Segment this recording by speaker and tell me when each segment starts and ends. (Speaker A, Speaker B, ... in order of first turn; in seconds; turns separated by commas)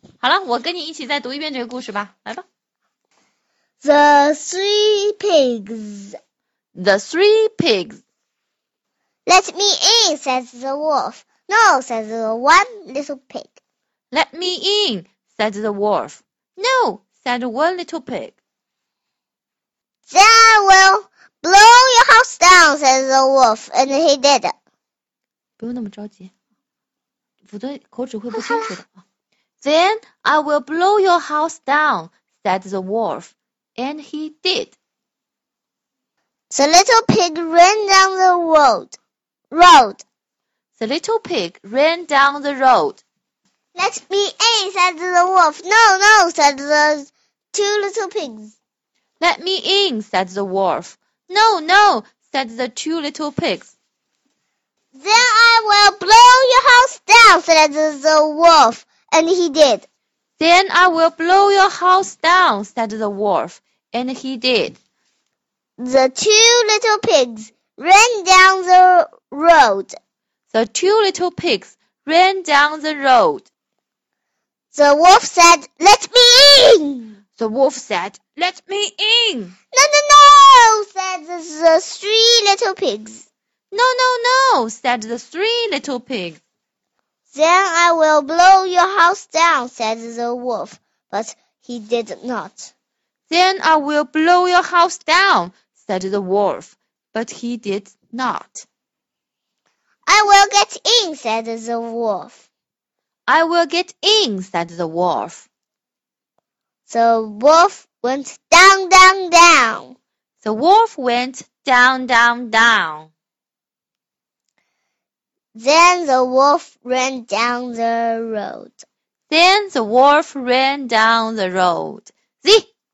Speaker A: 0.2-2.4, Speaker B: 3.8-6.2, Speaker A: 6.7-8.0, Speaker B: 9.2-13.6, Speaker A: 14.1-18.4, Speaker B: 20.1-24.5, Speaker A: 25.6-26.3, Speaker A: 27.4-29.0, Speaker B: 28.3-28.7, Speaker A: 29.6-34.8, Speaker B: 36.5-39.0, Speaker B: 39.5-40.0, Speaker A: 40.8-43.0, Speaker B: 43.7-48.5, Speaker A: 49.2-53.7, Speaker B: 54.9-59.9, Speaker A: 60.4-64.8, Speaker B: 65.8-70.0, Speaker A: 70.5-73.5, Speaker B: 74.7-77.2, Speaker A: 77.4-79.5, Speaker B: 79.7-83.2, Speaker A: 83.7-86.4, Speaker B: 87.3-92.7, Speaker A: 93.3-98.7, Speaker B: 100.0-102.4, Speaker A: 103.3-105.5, Speaker B: 106.9-110.0, Speaker A: 110.4-113.1, Speaker B: 115.5-118.8, Speaker A: 119.3-122.7